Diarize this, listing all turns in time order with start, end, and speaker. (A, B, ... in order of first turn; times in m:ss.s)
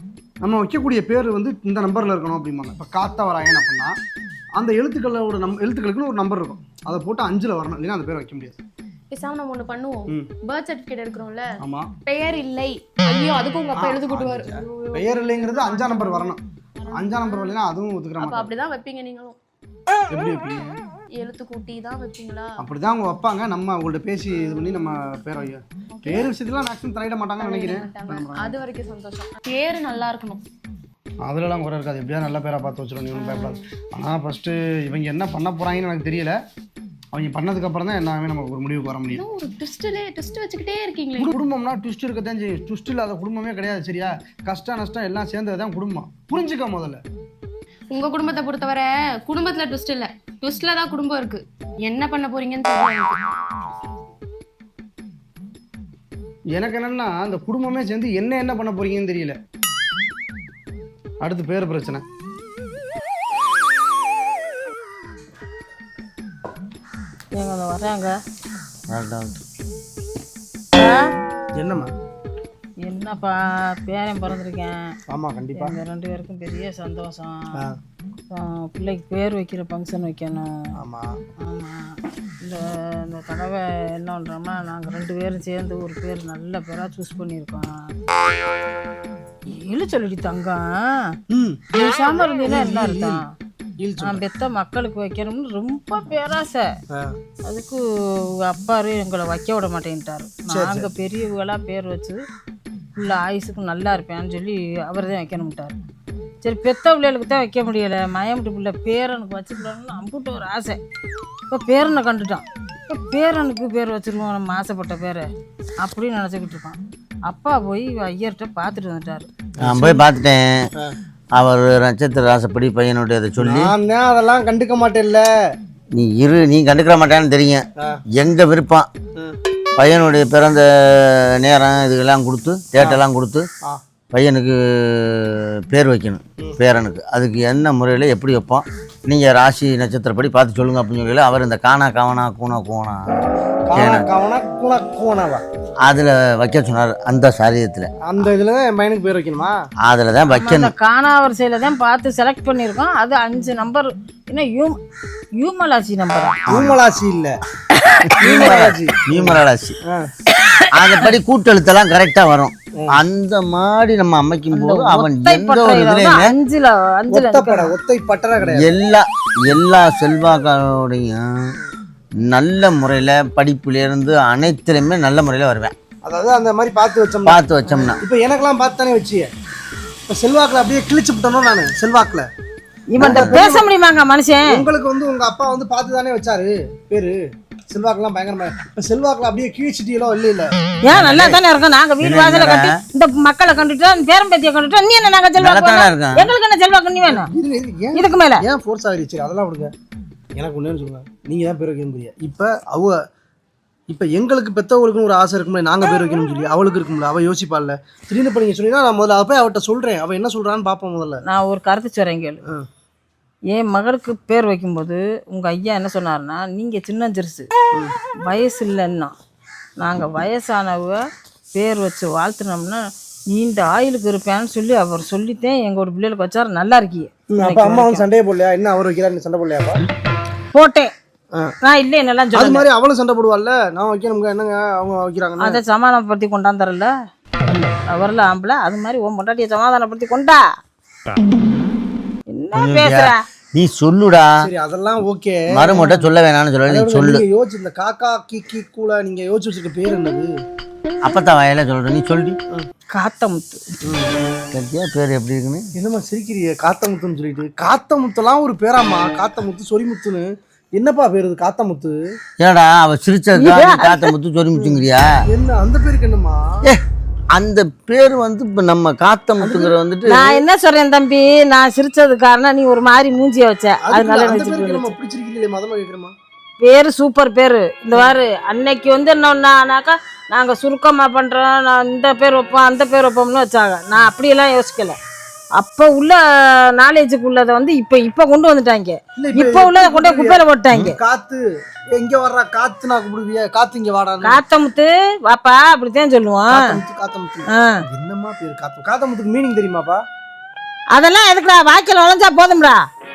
0:00.4-0:04.0 A
0:04.6-0:08.6 A
0:09.1-0:11.4 B
0:11.6-0:11.9 A
0:12.1-0:17.6 B
0:13.8-0:18.5 A
0:18.2-0:19.4 B
0:20.1-0:20.7 A
0:21.2-0:22.6 B
0:22.6-0:28.6 A
0:26.0-0:26.3 B
0:27.4-0:30.4 B
0:31.2-0:36.4 A
0:33.2-0:33.6 B
0:37.1-0:39.2 A
0:39.1-0:41.4 B
0:41.2-0:47.0 A
0:47.9-0:53.2 B
0:56.6-0:59.4 A
1:01.2-1:02.0 A
1:07.3-1:08.2 C
1:08.9-1:09.4 D
1:10.8-1:11.1 C
1:11.6-1:11.9 A
1:12.8-1:14.9 C
1:15.1-1:15.8 A
1:15.6-1:17.6 C
1:18.3-1:20.5 C
1:20.8-1:21.2 A
1:21.4-1:27.9 C
1:29.5-1:31.2 C
1:31.3-1:31.6 A
1:31.7-1:33.2 C
1:32.3-1:33.2 A
1:33.8-1:34.2 A
1:34.0-1:36.7 C
1:37.4-1:42.2 C
1:40.5-1:40.9 A
1:43.0-1:45.8 C
1:46.4-1:50.8 C
1:51.5-1:55.3 C
1:55.8-1:59.3 C
1:59.6-2:00.0 A
1:59.6-2:00.7 D
2:01.4-2:03.7 D
2:03.4-2:05.3 A
2:05.9-2:08.9 D
2:09.8-2:13.4 D
2:14.1-2:23.0 D
2:23.7-2:25.4 A
2:23.8-2:24.1 D
2:25.8-2:27.9 D
2:28.0-2:29.5 A
2:29.8-2:30.7 D
2:30.3-2:34.8 C
2:35.4-2:36.4 C
2:36.5-2:36.8 D
2:36.5-2:37.4 A
2:37.8-2:38.5 C
2:38.2-2:39.8 D
2:38.2-2:40.1 A
2:40.7-2:46.3 D
2:44.5-2:47.7 C
2:47.1-2:48.7 A
2:48.4-2:51.5 D
2:52.2-2:55.7 D
2:56.0-2:59.3 A
2:57.3-2:58.0 D
3:00.1-3:02.3 A
3:02.9-3:04.6 C
3:03.0-3:03.4 D
3:03.0-3:03.6 A
3:04.5-3:07.2 A
3:07.7-3:10.5 A
3:10.8-3:17.3 C
3:10.9-3:11.4 D
3:12.0-3:12.8 D
3:15.4-3:16.3 D
3:17.1-3:19.7 A
3:18.0-3:18.4 C
3:20.4-3:23.0 A
3:23.9-3:31.2 A
3:31.3-3:32.4 C
3:33.5-3:37.5 C
3:38.3-3:39.1 C
3:39.8-3:41.0 C
3:41.5-3:48.0 C
3:47.4-3:49.8 A
3:50.5-3:50.9 C
3:51.6-3:52.6 C
3:52.3-3:55.6 A
3:55.4-3:56.9 C
3:57.5-4:00.4 C
4:02.3-4:03.2 C
4:02.6-4:04.4 D
4:04.4-4:05.9 A
4:05.5-4:07.2 D
4:05.7-4:06.0 C
4:06.7-4:10.3 A
4:11.0-4:12.4 D
4:12.9-4:13.8 C
4:13.9-4:14.1 A
4:14.5-4:15.7 D
4:15.8-4:22.0 A
4:22.4-4:25.1 D
4:23.4-4:24.1 C
4:24.6-4:26.4 A
4:27.3-4:30.4 D
4:29.4-4:29.7 A
4:30.1-4:34.9 C
4:33.8-4:36.1 A
4:36.6-4:45.0 C
4:45.6-4:51.0 C
4:49.2-4:51.4 A
4:52.0-4:54.4 A
4:54.2-4:56.7 C
4:56.5-5:00.0 A
4:57.5-4:57.8 C
5:00.9-5:02.8 C